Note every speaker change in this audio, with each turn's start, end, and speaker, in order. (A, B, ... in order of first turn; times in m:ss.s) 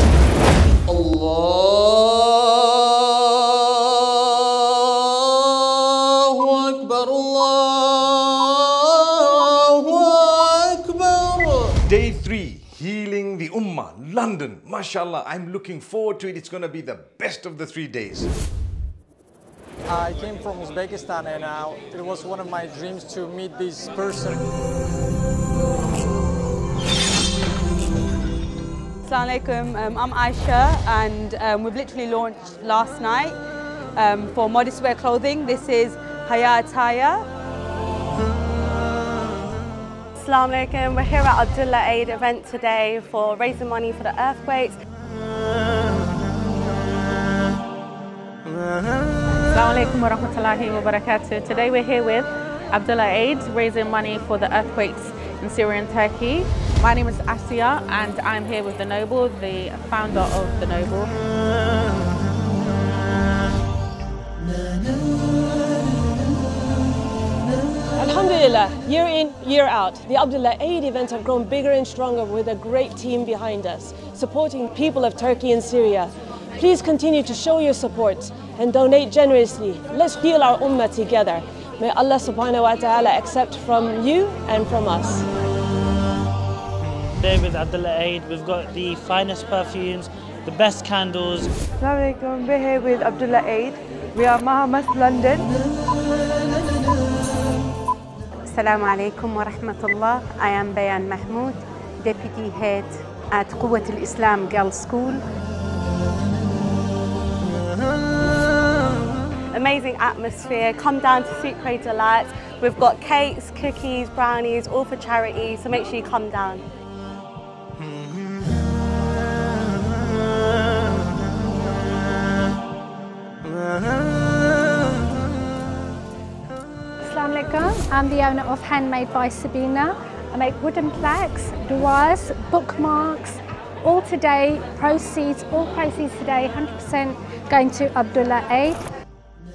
0:00.9-0:03.2 A
0:05.0-0:11.8 A
0:11.8-0:18.3 B
0:19.9-0:24.4 C
0:29.0-0:33.4 D
0:34.0-0:37.2 D
0:40.2-0:44.8 E
0:49.5-1:01.1 F
1:08.0-1:25.2 G
1:27.2-1:31.5 H
1:31.8-1:35.4 I
1:38.5-1:45.2 J
1:49.5-1:56.6 E
2:07.0-2:18.8 K